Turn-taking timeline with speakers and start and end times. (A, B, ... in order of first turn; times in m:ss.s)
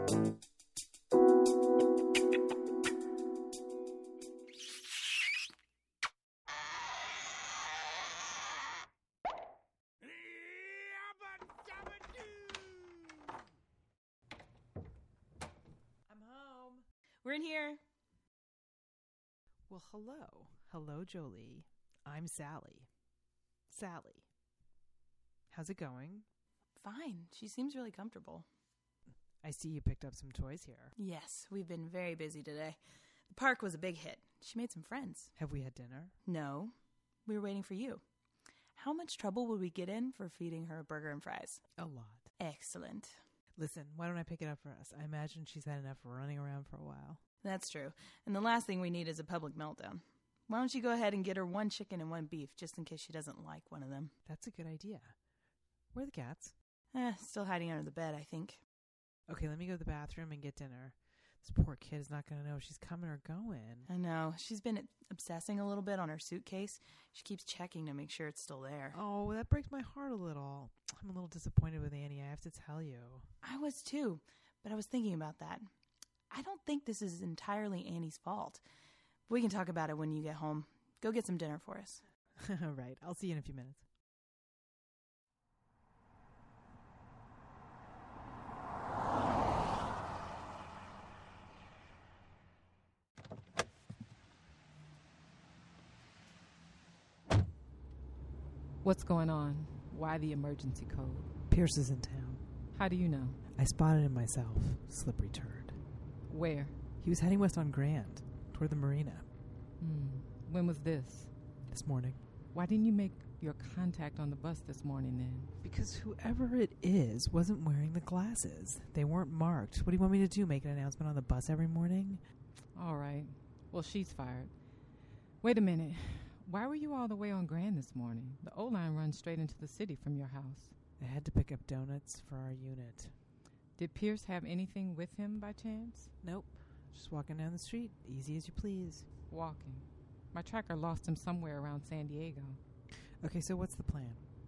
0:12.2-0:12.7 A
0:16.1-0:16.8 A
0:17.2-0:17.8 B
0:19.7-0:22.9 A
0:23.7-0:24.2 A
0:25.5-0:26.2 A
0:26.8-0:28.4 B
0:29.4-0:30.9 A
0:31.0-0:32.8 B
0:33.3-0:35.3 B
0:35.4-0:36.1 A
0:36.2-0:36.7 B
0:37.2-0:38.0 B
0:38.8-0:41.6 B
0:41.8-0:42.3 A
0:42.4-0:43.2 B
0:43.6-0:47.2 A
0:47.4-0:54.1 B
0:54.2-0:55.2 A
0:55.9-0:56.5 A
0:56.9-0:58.6 B
0:59.3-1:03.9 A
1:03.9-1:09.0 B
1:08.9-1:13.3 A
1:13.4-1:15.7 B
1:16.3-1:18.6 B
1:19.3-1:22.0 B
1:22.4-1:23.8 A
1:38.8-1:41.3 C
1:41.5-1:42.4 A
1:42.7-1:43.4 C
1:43.5-1:45.8 A
1:46.3-1:46.7 C
1:47.0-1:49.3 A
1:49.8-1:51.3 C
1:51.7-1:52.2 A
1:52.5-1:55.5 C
1:55.6-2:02.2 A
2:02.7-2:04.5 C
2:05.4-2:10.7 C
2:11.0-2:13.1 A
2:13.8-2:16.1 C
2:16.2-2:19.1 A
2:19.3-2:22.6 C
2:23.2-2:24.2 A